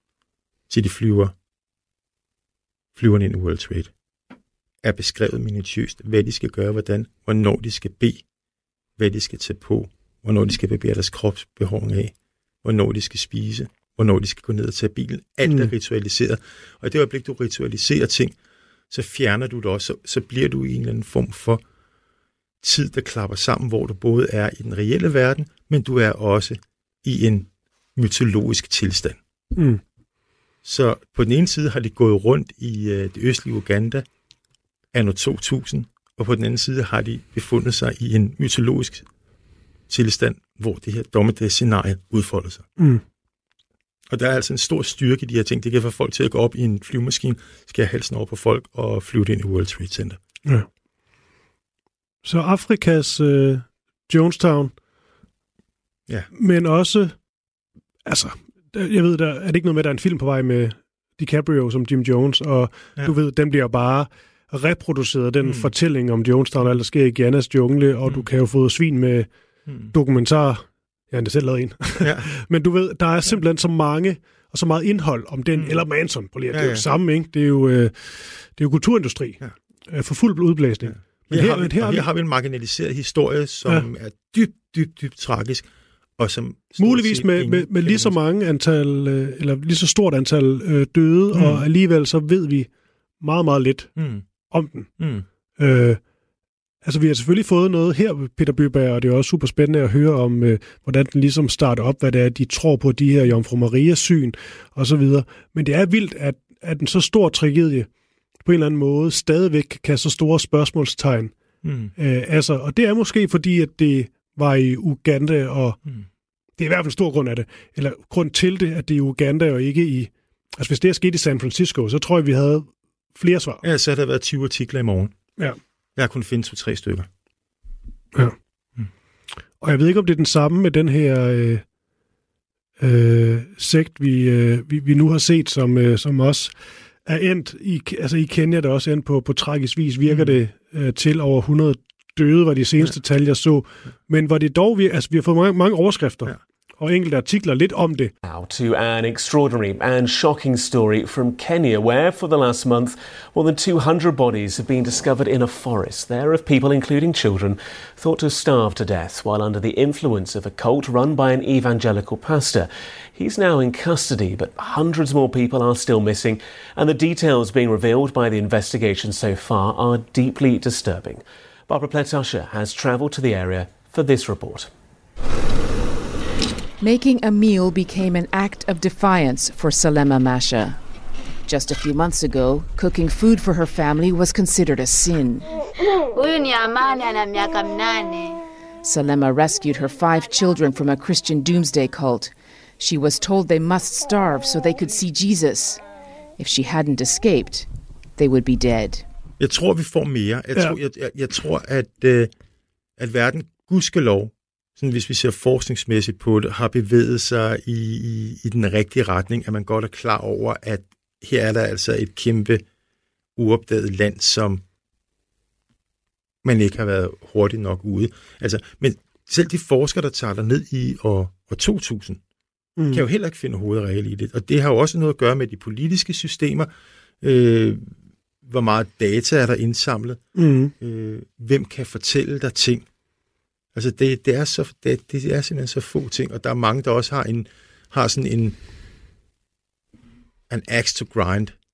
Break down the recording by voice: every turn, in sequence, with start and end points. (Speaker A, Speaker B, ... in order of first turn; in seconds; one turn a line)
Speaker A: 0.7-1.3
Speaker A: 2.9-3.9
Speaker A: 4.8-8.2
Speaker A: 9.0-18.4
Speaker B: 15.4-15.7
Speaker A: 18.9-21.6
Speaker A: 22.6-29.2
Speaker B: 29.5-29.8
Speaker A: 30.6-34.0
Speaker A: 34.9-39.0
Speaker A: 39.9-42.7
Speaker B: 42.8-43.0
Speaker A: 44.1-50.2
Speaker B: 52.2-54.7
Speaker B: 56.3-57.1
Speaker B: 58.0-69.3
Speaker A: 65.4-65.7
Speaker A: 69.7-69.9
Speaker B: 69.9-82.0
Speaker A: 72.0-72.3
Speaker A: 75.5-75.8
Speaker A: 76.5-76.9
Speaker A: 80.8-85.7
Speaker A: 86.2-88.1
Speaker B: 86.8-92.7
Speaker A: 91.3-91.6
Speaker B: 93.2-93.9
Speaker A: 94.0-94.2
Speaker B: 94.5-94.9
Speaker A: 95.0-95.2
Speaker B: 95.6-96.0
Speaker B: 96.8-107.9
Speaker B: 108.4-111.3
Speaker A: 111.6-111.9
Speaker B: 112.0-115.8
Speaker B: 116.6-123.6
Speaker A: 123.6-125.1
Speaker A: 126.0-127.1
Speaker B: 129.6-131.6
Speaker B: 132.8-136.5
Speaker B: 137.0-148.1
Speaker A: 140.1-140.4
Speaker C: 148.2-174.7
Speaker D: 176.8-180.8
Speaker D: 181.5-185.5
Speaker E: 186.1-188.4
Speaker D: 188.8-195.8
Speaker D: 196.4-199.0
Speaker A: 199.4-202.3
Speaker A: 203.0-212.6
Speaker A: 213.3-214.6
Speaker A: 216.4-222.2
Speaker B: 222.8-223.0
Speaker A: 222.9-226.7
Speaker A: 227.2-227.9
Speaker A: 228.4-230.2
Speaker B: 230.3-230.7
Speaker A: 230.8-232.8
Speaker A: 233.7-238.6
Speaker A: 240.5-241.6